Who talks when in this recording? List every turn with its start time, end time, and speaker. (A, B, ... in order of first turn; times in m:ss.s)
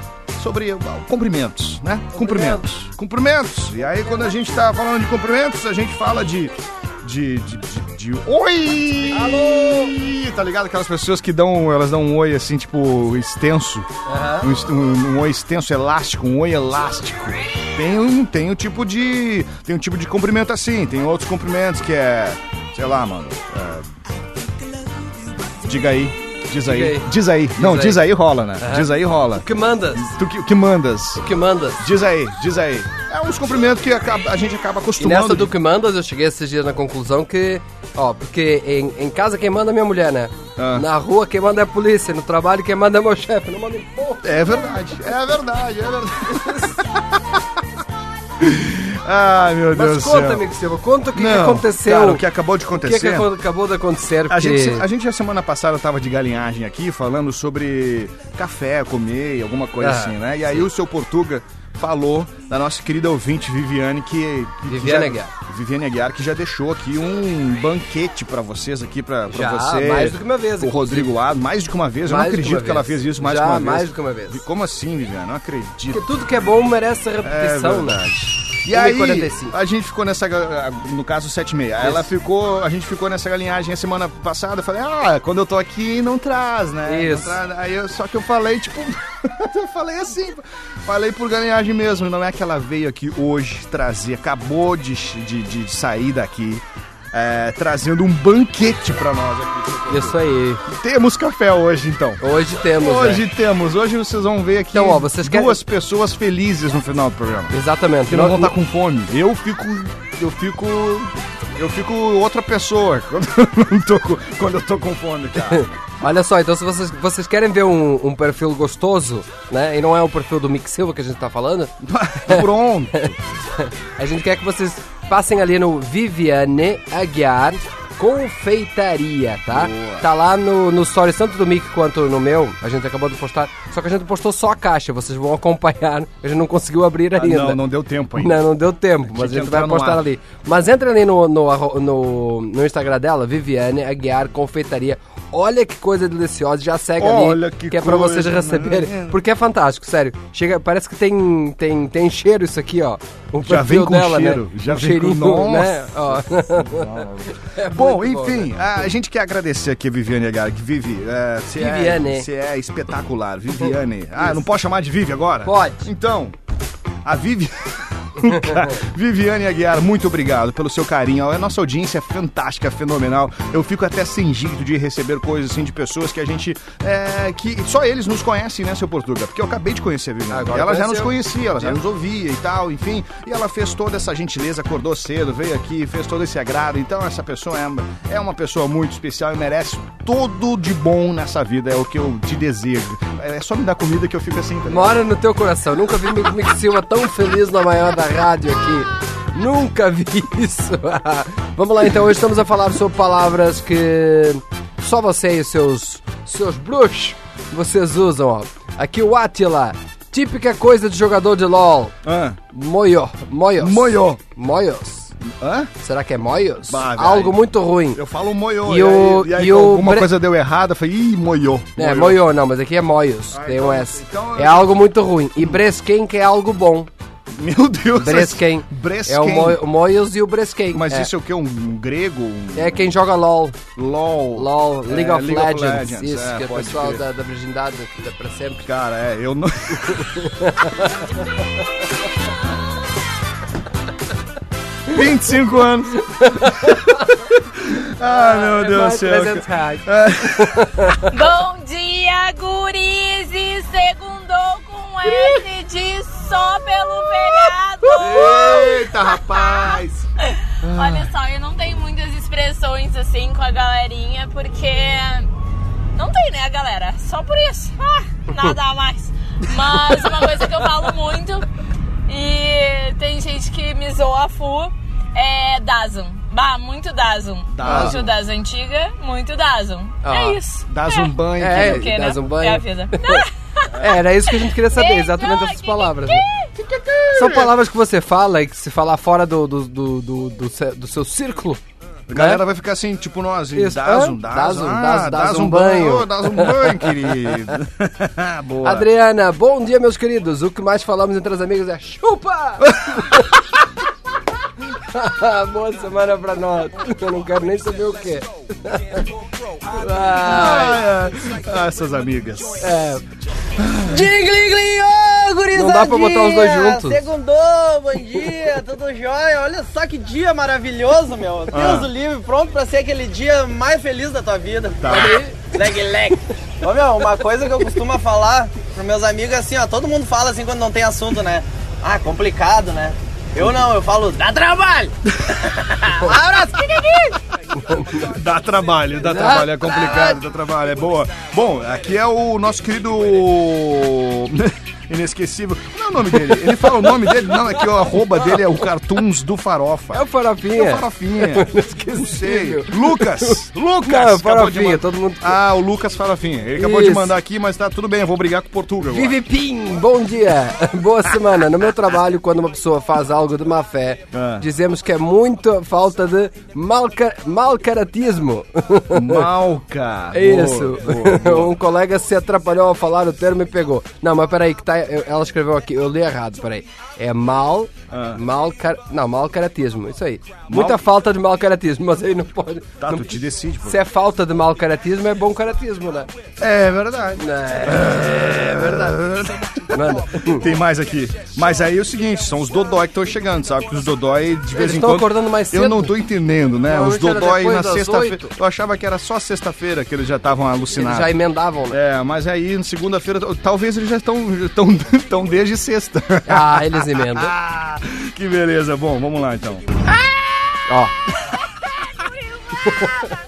0:00.4-0:23.9 A
0:02.1-0:02.6 B
0:09.1-0:09.9 B
0:14.0-0:14.5 B
0:25.6-0:31.2 A
0:26.6-0:30.1 B
0:31.2-0:31.8 B
0:31.8-0:35.5 A
0:35.0-0:44.4 B
0:40.6-0:40.8 A
0:44.2-0:47.4 A
0:46.3-0:46.7 B
0:48.4-0:50.4 A
0:49.7-0:54.9 B
0:51.1-0:53.3 A
0:54.3-1:16.0 A
0:59.8-1:00.7 B
1:04.7-1:05.3 B
1:09.3-1:11.1 B
1:12.0-1:14.4 B
1:15.9-1:18.0 B
1:17.2-1:42.2 A
1:18.7-1:19.6 B
1:21.8-1:22.1 B
1:26.8-1:27.4 B
1:39.9-1:40.6 B
1:42.2-1:43.2 B
1:42.8-1:47.5 A
1:44.7-1:45.6 B
1:47.5-1:48.5 B
1:48.1-1:55.7 A
1:55.5-2:38.5 B
2:01.8-2:03.2 A
2:09.5-2:10.1 A
2:17.2-2:18.4 A
2:19.1-2:20.0 A
2:27.0-2:29.2 A
2:33.4-2:46.4 A
2:41.6-2:42.3 B
2:45.4-2:45.8 B
2:47.0-3:15.1 A
3:00.3-3:01.8 B
3:14.7-3:31.9 B
3:32.0-3:32.4 A
3:32.5-3:35.1 B
3:33.6-3:34.2 A
3:35.2-3:35.7 A
3:35.8-3:38.0 B
3:36.7-3:42.2 A
3:38.6-3:40.1 B
3:41.8-3:46.9 B
3:43.3-3:44.8 A
3:47.3-3:49.6 A
3:48.0-3:51.1 B
3:50.7-3:52.9 A
3:52.5-3:53.6 B
3:53.7-3:57.0 A
3:54.4-3:58.7 B
3:58.6-4:00.3 A
3:59.8-4:00.9 B
4:04.9-4:10.9 A
4:08.1-4:11.1 B
4:11.1-4:25.3 C
4:17.9-4:20.1 A
4:20.6-4:21.1 A
4:25.9-4:31.5 C
4:32.1-4:43.7 C
4:37.5-4:38.1 A
4:37.6-4:38.0 B
4:40.0-4:40.4 B
4:40.7-4:41.9 A
4:41.4-4:43.2 B
4:43.8-4:46.3 B
4:44.3-4:46.5 C
4:46.6-4:47.5 A
4:47.1-4:51.6 B
4:52.1-4:58.9 A
4:52.1-4:52.4 B
4:53.5-4:57.5 B
4:58.6-5:03.4 B
5:02.6-5:03.2 A
5:04.7-5:09.0 B
5:09.6-5:10.8 B
5:10.2-5:12.8 A
5:12.6-5:13.0 B
5:13.6-5:14.1 A
5:13.8-5:37.2 D
5:15.5-5:17.0 B
5:21.5-5:21.9 A
5:24.8-5:25.2 A
5:24.8-5:25.4 B
5:37.6-5:38.1 B
5:37.8-5:59.2 A
5:39.0-5:40.2 B
5:46.2-5:48.4 B
5:49.9-5:55.4 B
5:56.6-5:57.1 B
5:58.9-6:09.3 B
6:04.1-6:04.4 A
6:08.9-6:11.5 A
6:10.1-6:26.1 B
6:17.9-6:18.2 A
6:20.5-6:20.8 A
6:22.8-6:23.8 A
6:26.4-6:41.2 A
6:27.2-6:29.0 B
6:29.7-6:30.4 B
6:34.5-6:36.0 B
6:36.7-6:38.3 B
6:40.7-6:41.8 B
6:41.7-6:49.8 A
6:46.2-6:47.3 B
6:50.7-6:50.9 B
6:52.6-6:52.9 B